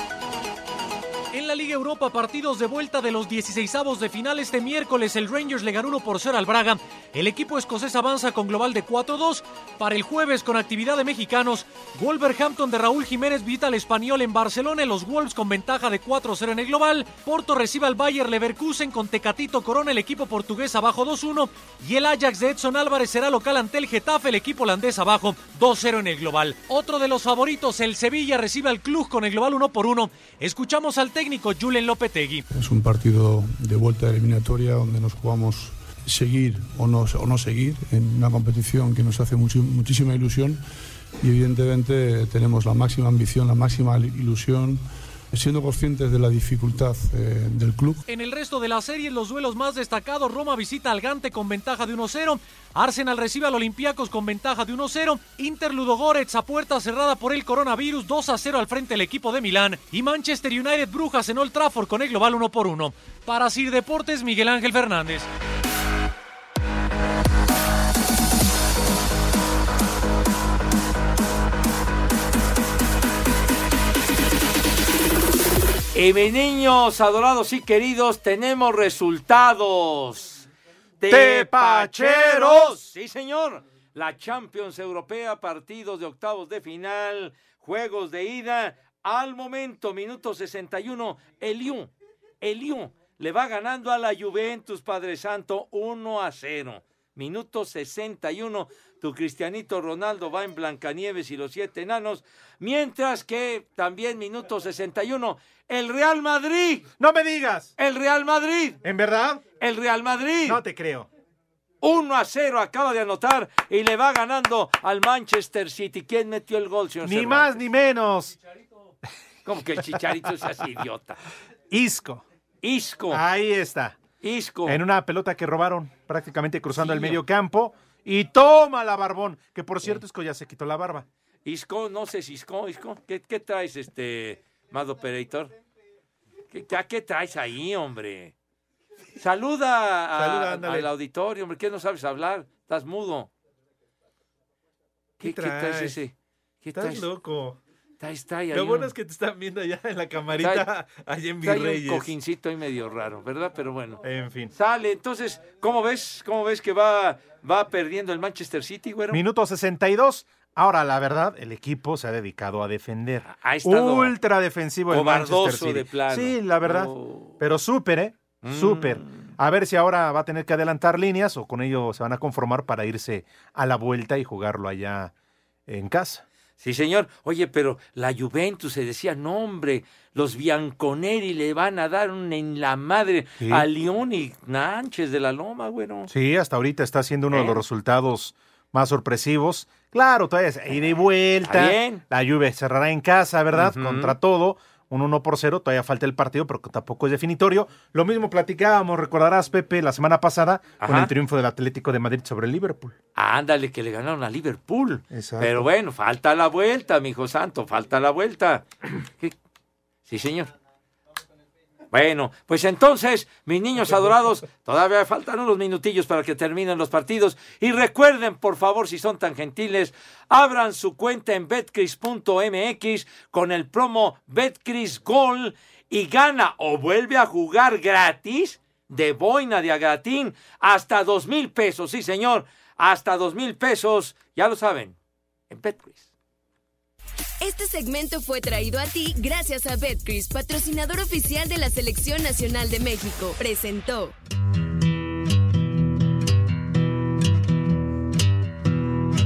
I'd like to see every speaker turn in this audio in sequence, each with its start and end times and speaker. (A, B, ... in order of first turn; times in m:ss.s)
0:01.3-0:32.5 A
0:32.5-0:40.6 B
0:41.2-0:48.0 B
0:48.1-1:05.3 A
1:15.9-1:20.5 C
1:21.0-1:46.9 C
1:21.1-1:22.8 D
1:47.0-1:47.7 D
1:47.8-1:48.8 C
1:48.8-1:49.4 D
1:49.6-1:50.6 C
1:50.4-1:51.1 D
1:51.8-1:57.6 C
1:57.0-1:58.4 D
1:59.4-2:01.2 C
2:01.7-2:02.2 D
2:02.6-2:03.2 C
2:03.1-2:04.0 D
2:04.2-2:04.8 C
2:04.7-2:11.1 D
2:06.8-2:07.2 C
2:11.4-2:15.5 C
2:16.5-2:18.3 C
2:19.2-2:23.3 C
2:20.2-2:20.9 D
2:25.2-2:26.0 D
2:25.2-2:27.1 C
2:26.7-2:27.6 D
2:28.0-2:28.9 C
2:28.5-2:32.1 D
2:30.4-2:30.7 C
2:31.4-2:34.0 C
2:34.0-2:34.5 D
2:34.5-2:39.2 C
2:39.1-2:55.1 D
2:43.3-2:44.2 C
2:44.9-2:47.4 C
2:48.4-2:49.3 C
2:55.7-2:56.2 D
2:56.6-3:06.1 C
3:03.4-3:03.7 D
3:06.1-3:22.9 D
3:07.3-3:07.6 C
3:11.4-3:12.0 C
3:13.5-3:14.2 C
3:20.8-3:21.1 C
3:23.1-3:29.3 C
3:25.1-3:25.7 D
3:30.1-3:30.5 C
3:31.9-3:55.0 C
3:55.5-3:56.1 C
3:57.4-4:04.1 E